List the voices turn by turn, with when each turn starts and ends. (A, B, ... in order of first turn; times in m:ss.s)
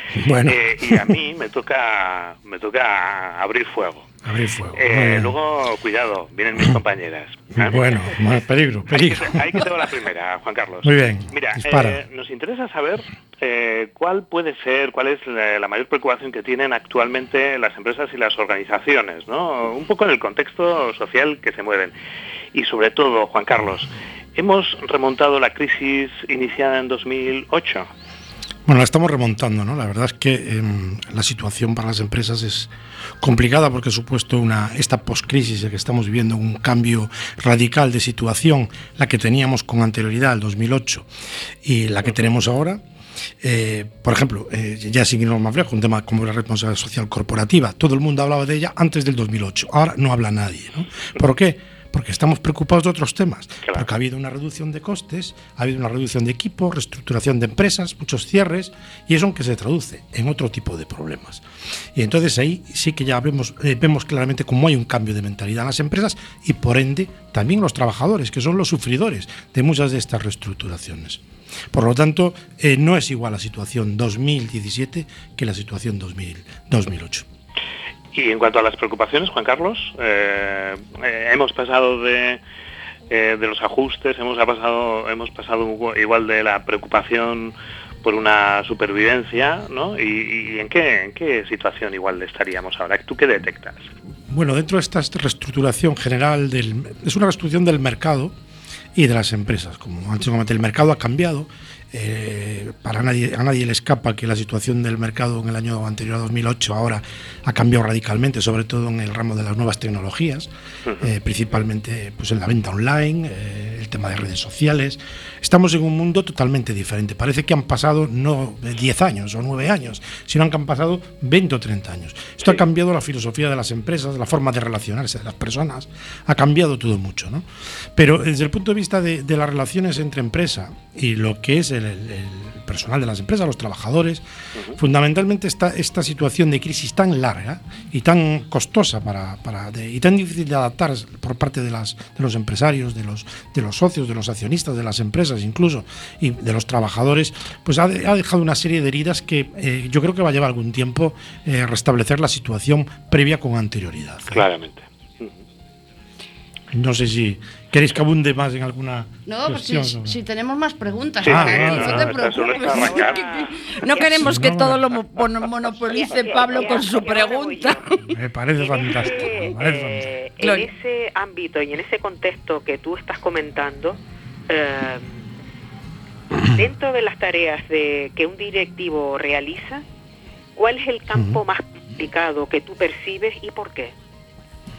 0:00.1-0:01.1 A
0:00.4-0:04.1 B
0:04.2-0:05.3 A
0:04.7-0:08.1 B
0:07.6-0:09.6 A
0:08.9-0:21.9 B
0:10.8-0:12.0 A
0:22.5-0:27.9 B
0:28.6-0:41.1 A
0:41.6-0:42.8 A
0:43.4-1:01.4 A
1:01.9-1:11.2 A
1:11.7-1:17.2 A
1:18.1-1:22.4 B
1:23.1-1:33.8 B
1:34.3-1:38.3 A
1:38.9-2:14.2 A
2:14.7-2:34.5 A
2:34.3-2:35.3 B
2:36.7-2:40.2 A
2:39.2-2:48.1 C
2:41.2-2:42.2 A
2:41.2-2:43.2 B
2:42.4-2:44.3 D
2:44.2-2:44.8 A
2:45.9-2:47.8 D
2:48.1-2:50.1 A
2:48.6-2:54.0 D
2:50.4-2:50.7 C
2:54.5-2:55.2 D
2:56.5-2:59.8 D
3:00.6-3:03.9 D
3:01.1-3:01.4 A